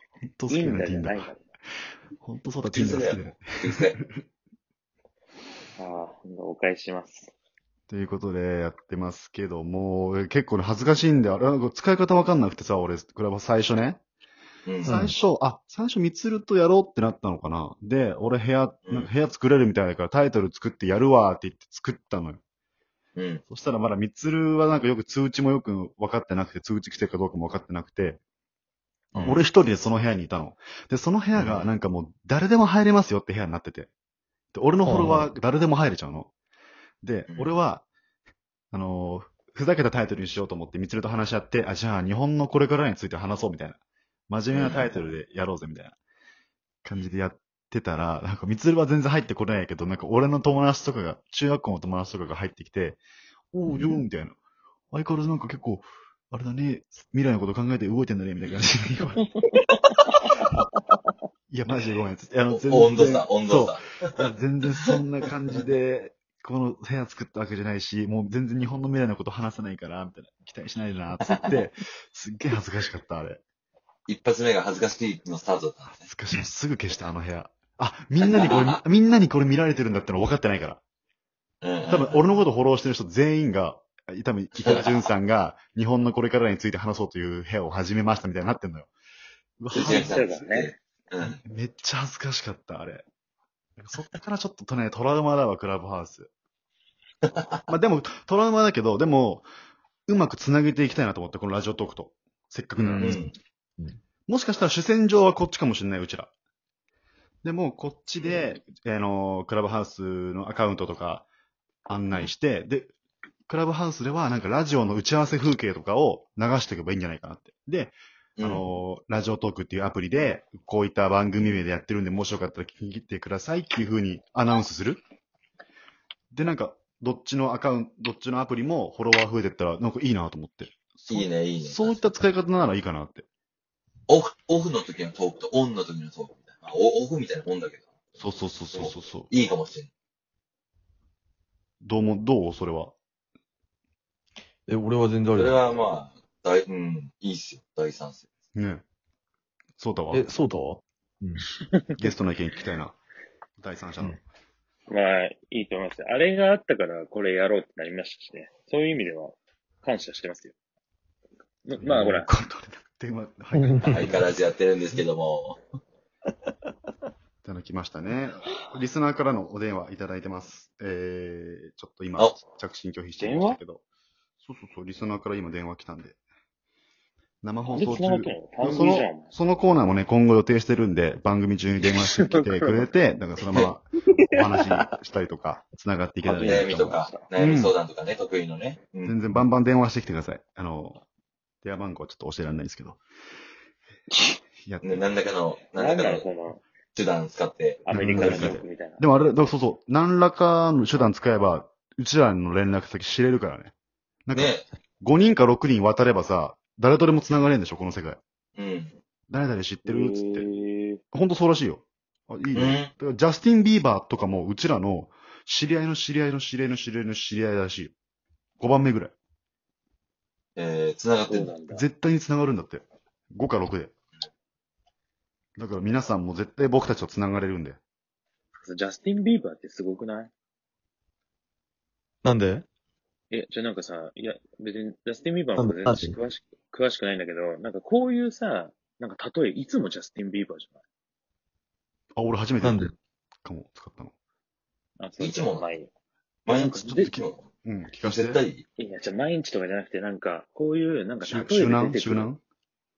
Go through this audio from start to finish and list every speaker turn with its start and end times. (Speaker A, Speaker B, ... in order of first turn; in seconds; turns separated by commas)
Speaker A: 0.2-1.2, Speaker B: 0.5-1.4, Speaker A: 2.2-4.1, Speaker C: 2.7-4.0, Speaker B: 5.8-7.3, Speaker A: 7.9-14.0, Speaker C: 14.7-15.1, Speaker A: 14.8-22.4, Speaker D: 14.8-15.1, Speaker C: 23.1-23.4, Speaker A: 23.5-28.2, Speaker C: 29.1-29.4, Speaker A: 29.2-33.9, Speaker C: 31.4-31.7, Speaker A: 34.5-36.3, Speaker D: 34.8-35.2, Speaker A: 37.0-37.9, Speaker C: 37.3-37.6, Speaker A: 38.7-43.8, Speaker A: 44.3-46.0, Speaker C: 44.5-44.9, Speaker A: 46.8-53.0, Speaker A: 53.5-54.4, Speaker A: 54.9-59.2, Speaker B: 59.3-60.5, Speaker A: 61.5-73.4, Speaker C: 62.5-64.1, Speaker C: 71.3-71.6, Speaker C: 74.1-76.0, Speaker A: 75.9-80.8, Speaker C: 78.2-78.8, Speaker C: 81.6-82.2, Speaker A: 81.9-88.9, Speaker A: 89.6-90.2, Speaker B: 89.7-90.7, Speaker C: 89.7-91.4, Speaker A: 91.4-93.0, Speaker A: 93.8-96.3, Speaker A: 97.7-99.5, Speaker A: 100.1-103.3, Speaker C: 102.8-103.3, Speaker A: 104.3-106.3, Speaker A: 107.4-111.3, Speaker A: 111.9-112.9, Speaker A: 113.5-125.0, Speaker C: 118.4-118.6, Speaker A: 126.3-133.3, Speaker C: 131.1-132.1, Speaker C: 134.1-139.9, Speaker A: 138.2-139.3, Speaker A: 141.8-142.9, Speaker D: 144.7-145.6, Speaker C: 145.3-148.2, Speaker A: 148.5-148.8, Speaker A: 149.8-150.3, Speaker D: 150.1-151.4, Speaker A: 152.0-152.9, Speaker A: 153.6-154.2, Speaker B: 154.9-160.5, Speaker B: 161.6-162.3, Speaker A: 161.8-164.4, Speaker C: 163.8-165.6, Speaker A: 167.4-173.8, Speaker B: 173.2-173.6, Speaker A: 174.4-176.2, Speaker A: 177.4-187.8, Speaker B: 177.7-179.3, Speaker B: 182.2-182.8, Speaker C: 183.4-183.7, Speaker B: 186.2-187.2, Speaker C: 186.4-189.1, Speaker A: 189.0-191.0, Speaker A: 191.6-193.0, Speaker A: 194.7-195.1, Speaker C: 194.8-196.3, Speaker B: 195.7-196.6, Speaker C: 196.9-198.6, Speaker B: 197.9-199.0, Speaker A: 197.9-203.7, Speaker A: 204.2-208.2, Speaker C: 204.3-204.7, Speaker C: 208.6-208.9, Speaker A: 209.3-210.5, Speaker B: 209.8-211.0, Speaker A: 211.1-217.9, Speaker C: 212.5-212.9, Speaker A: 218.6-219.1, Speaker C: 220.6-221.5, Speaker B: 221.3-221.8, Speaker A: 221.6-223.9, Speaker A: 225.6-227.8, Speaker B: 228.6-230.3, Speaker D: 232.2-232.6, Speaker B: 233.3-240.7, Speaker D: 235.6-236.2, Speaker A: 242.2-242.9, Speaker D: 242.6-242.9, Speaker A: 243.4-244.1, Speaker B: 245.0-245.9, Speaker C: 245.2-245.7, Speaker C: 246.4-247.4, Speaker B: 246.5-247.2, Speaker A: 246.8-248.4, Speaker C: 248.0-248.6, Speaker B: 248.8-252.3, Speaker A: 251.2-252.4